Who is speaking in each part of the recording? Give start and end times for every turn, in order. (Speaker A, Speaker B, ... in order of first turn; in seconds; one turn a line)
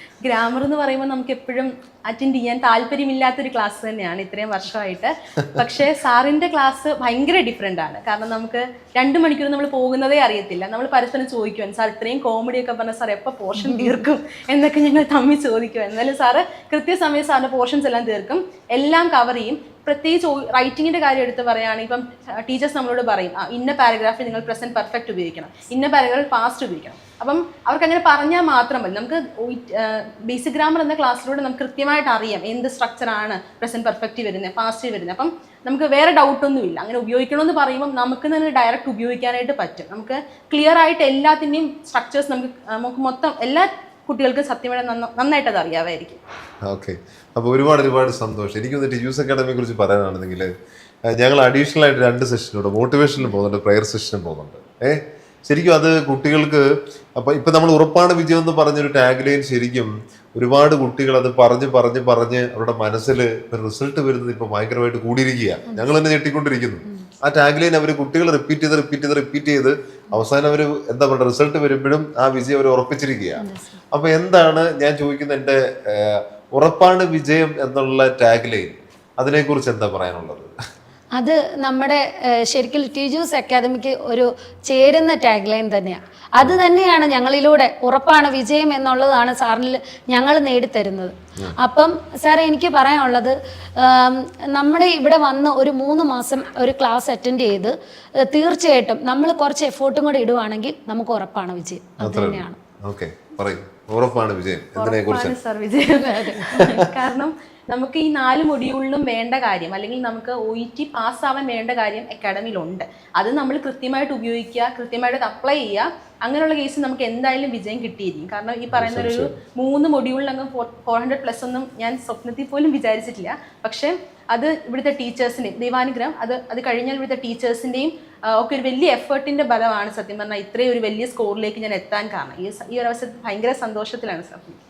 Speaker A: 0.2-46.2
Speaker B: 13.6-14.0
Speaker C: 46.6-50.5
Speaker C: 51.1-80.5
Speaker B: 73.4-73.8
Speaker B: 81.2-102.6
Speaker C: 102.0-105.3
Speaker A: 104.8-134.6
Speaker B: 106.0-106.6
Speaker C: 106.5-106.9
Speaker C: 118.7-119.3